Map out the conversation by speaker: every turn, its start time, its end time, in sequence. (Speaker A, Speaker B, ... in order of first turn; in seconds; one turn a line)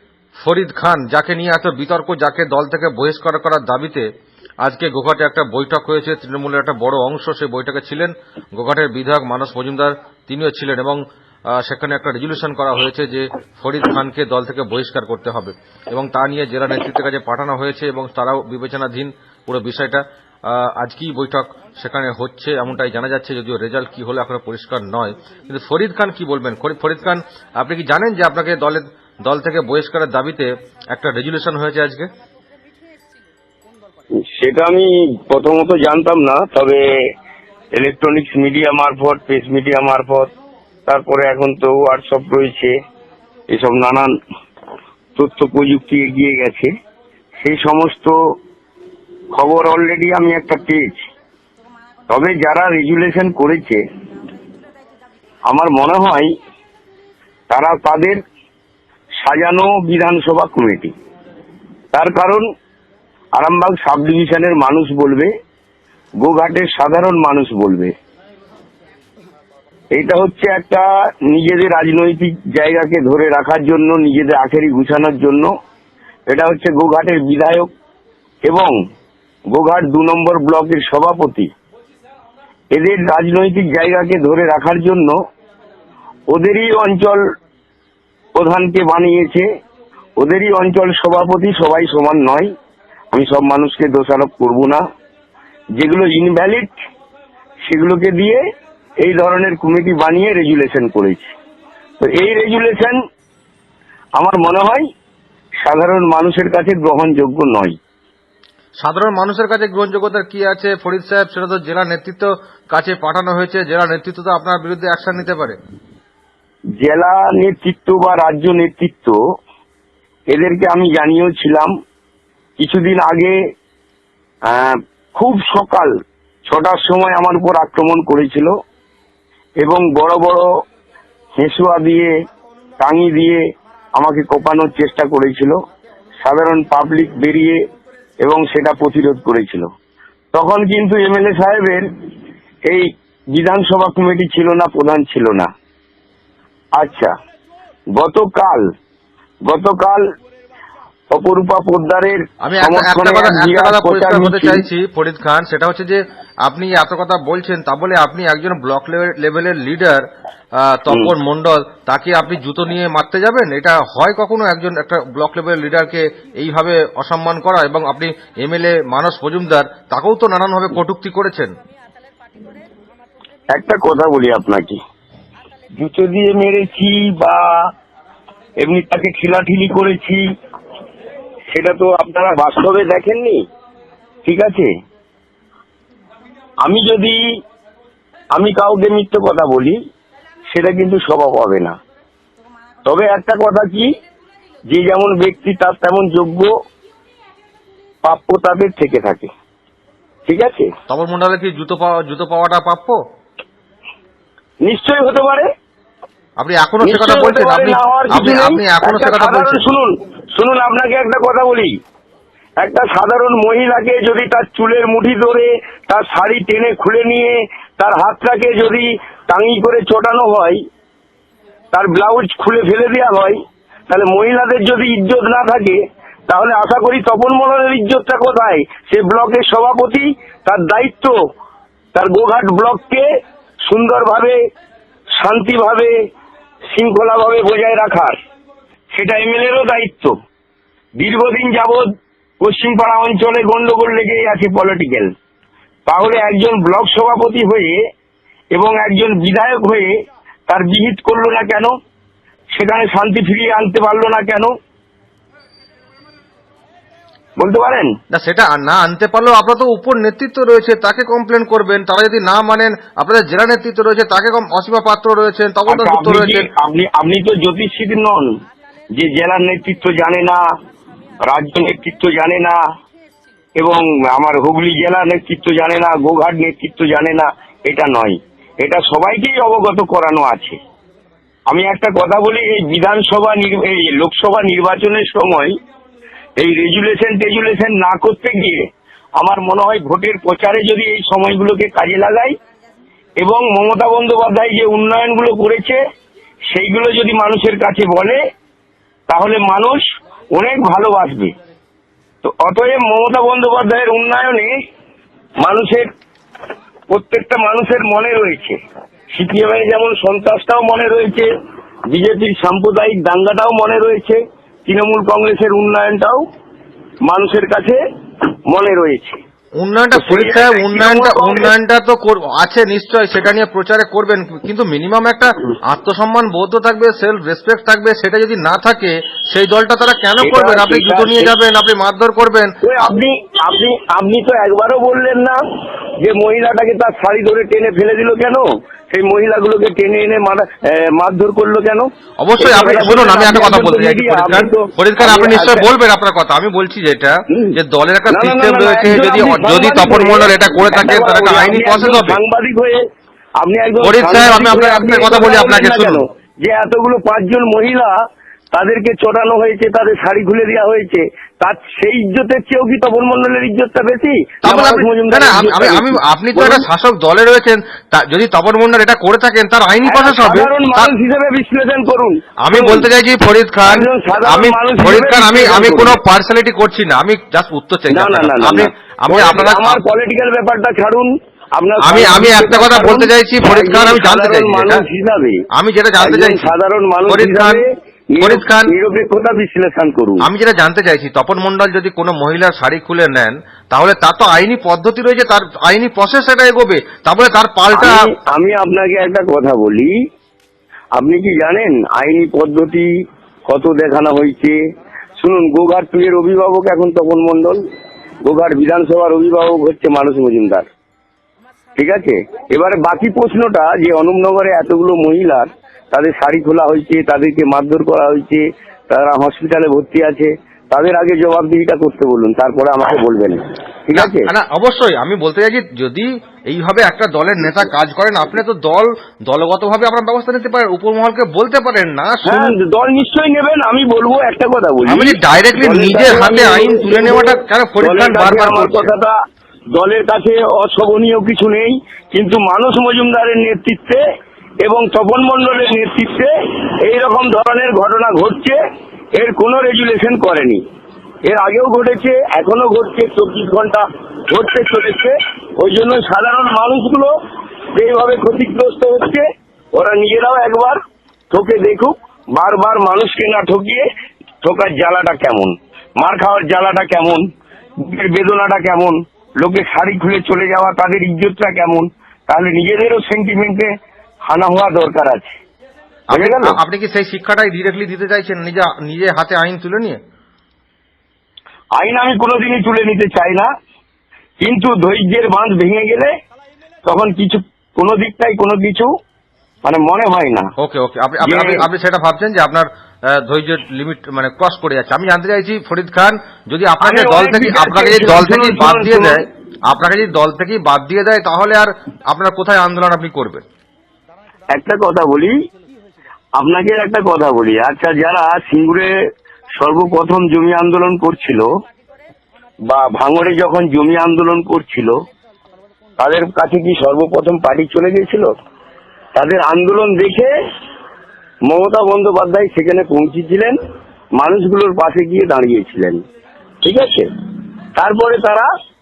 Speaker A: 0.4-4.1
Speaker A: 4.6-32.1
Speaker B: 34.2-36.8
Speaker B: 37.8-40.3
Speaker B: 40.9-42.7
Speaker B: 43.5-44.1
Speaker B: 45.2-46.7
Speaker B: 47.4-48.2
Speaker B: 49.3-51.0
Speaker B: 52.1-53.8
Speaker B: 55.5-56.3
Speaker B: 57.5-58.2
Speaker B: 59.2-60.9
Speaker B: 61.9-62.5
Speaker B: 63.4-65.3
Speaker B: 66.2-67.9
Speaker B: 69.9-75.5
Speaker B: 76.3-77.7
Speaker B: 78.4-78.7
Speaker B: 79.5-81.5
Speaker B: 82.7-85.2
Speaker B: 86.3-87.2
Speaker B: 88.3-89.5
Speaker B: 90.2-92.5
Speaker B: 93.1-94.8
Speaker B: 95.8-96.7
Speaker B: 97.7-98.4
Speaker B: 99.0-101.3
Speaker B: 102.0-103.0
Speaker B: 104.2-104.8
Speaker B: 105.6-107.7
Speaker A: 108.8-115.6
Speaker B: 116.8-119.2
Speaker B: 120.3-121.7
Speaker B: 122.6-123.4
Speaker B: 124.5-125.9
Speaker B: 126.5-128.5
Speaker B: 129.6-130.5
Speaker B: 131.4-132.1
Speaker B: 132.8-133.4
Speaker B: 134.0-135.6
Speaker B: 136.2-137.6
Speaker B: 138.2-139.7
Speaker B: 140.3-141.9
Speaker B: 142.7-145.5
Speaker B: 146.8-147.1
Speaker B: 148.0-148.7
Speaker B: 149.5-150.0
Speaker B: 151.1-154.6
Speaker A: 152.4-160.0
Speaker A: 160.6-171.5
Speaker B: 173.5-174.8
Speaker B: 175.8-177.5
Speaker B: 178.6-180.2
Speaker B: 181.5-183.4
Speaker B: 184.2-184.7
Speaker B: 186.6-187.2
Speaker B: 188.3-189.8
Speaker B: 190.5-191.8
Speaker B: 192.8-193.9
Speaker B: 194.7-196.5
Speaker B: 198.1-199.3
Speaker B: 200.3-200.7
Speaker A: 200.9-203.0
Speaker B: 204.6-205.5
Speaker A: 206.4-209.7
Speaker B: 206.8-211.7
Speaker B: 212.6-220.6
Speaker B: 221.7-231.2
Speaker B: 231.9-233.1
Speaker B: 233.7-234.4
Speaker B: 235.2-235.9
Speaker B: 236.7-238.2
Speaker B: 238.9-240.1
Speaker B: 241.0-241.8
Speaker B: 242.4-245.1
Speaker B: 245.9-247.8
Speaker B: 248.5-249.9
Speaker B: 250.5-251.7
Speaker B: 252.5-254.5
Speaker B: 257.4-257.9
Speaker A: 258.1-266.5
Speaker B: 265.7-268.3
Speaker B: 268.9-270.4
Speaker B: 271.3-272.6
Speaker B: 273.6-280.6
Speaker B: 281.5-285.5
Speaker B: 286.4-292.4
Speaker B: 293.2-295.8
Speaker B: 296.5-298.2
Speaker B: 299.1-299.8
Speaker B: 300.3-301.3
Speaker B: 302.2-304.5
Speaker B: 305.4-305.9
Speaker B: 306.9-308.6
Speaker B: 309.1-311.3
Speaker B: 311.9-316.2
Speaker B: 317.1-317.8
Speaker B: 318.5-319.2
Speaker A: 319.6-332.6
Speaker B: 319.9-321.5
Speaker B: 330.2-331.3
Speaker B: 332.6-335.4
Speaker B: 336.0-341.9
Speaker A: 342.2-352.2
Speaker B: 342.4-345.7
Speaker B: 348.1-352.8
Speaker B: 353.4-357.9
Speaker A: 353.8-356.0
Speaker B: 358.5-366.7
Speaker A: 364.4-370.9
Speaker B: 369.9-372.9
Speaker A: 372.4-379.8
Speaker B: 373.6-376.0
Speaker B: 377.9-385.4
Speaker A: 381.8-384.8
Speaker A: 385.5-386.5
Speaker B: 386.0-390.2
Speaker A: 387.1-387.6
Speaker A: 388.2-388.7
Speaker A: 390.2-398.1
Speaker B: 397.7-399.9
Speaker B: 400.9-402.9
Speaker B: 403.5-404.6
Speaker B: 405.2-407.6
Speaker B: 408.2-410.7
Speaker B: 411.8-424.3
Speaker A: 423.9-432.6
Speaker B: 432.2-439.1
Speaker A: 434.9-438.9
Speaker B: 439.8-444.0
Speaker B: 444.6-448.6
Speaker B: 449.2-450.6
Speaker B: 451.3-457.1
Speaker B: 457.8-460.8
Speaker B: 461.3-463.9
Speaker B: 464.4-467.2
Speaker B: 467.8-473.7
Speaker B: 474.3-475.3
Speaker A: 476.1-480.0
Speaker B: 476.1-476.6
Speaker B: 481.8-483.5
Speaker B: 484.4-486.1
Speaker B: 486.9-488.9
Speaker B: 489.6-490.5
Speaker A: 490.6-503.4
Speaker B: 491.2-491.7
Speaker B: 496.8-499.2
Speaker B: 504.5-505.3
Speaker B: 506.4-508.9
Speaker B: 509.6-511.5
Speaker B: 512.7-514.9
Speaker B: 516.0-518.3
Speaker B: 519.1-520.3
Speaker B: 521.5-523.6
Speaker B: 524.2-526.0
Speaker B: 526.6-527.1
Speaker B: 527.8-528.5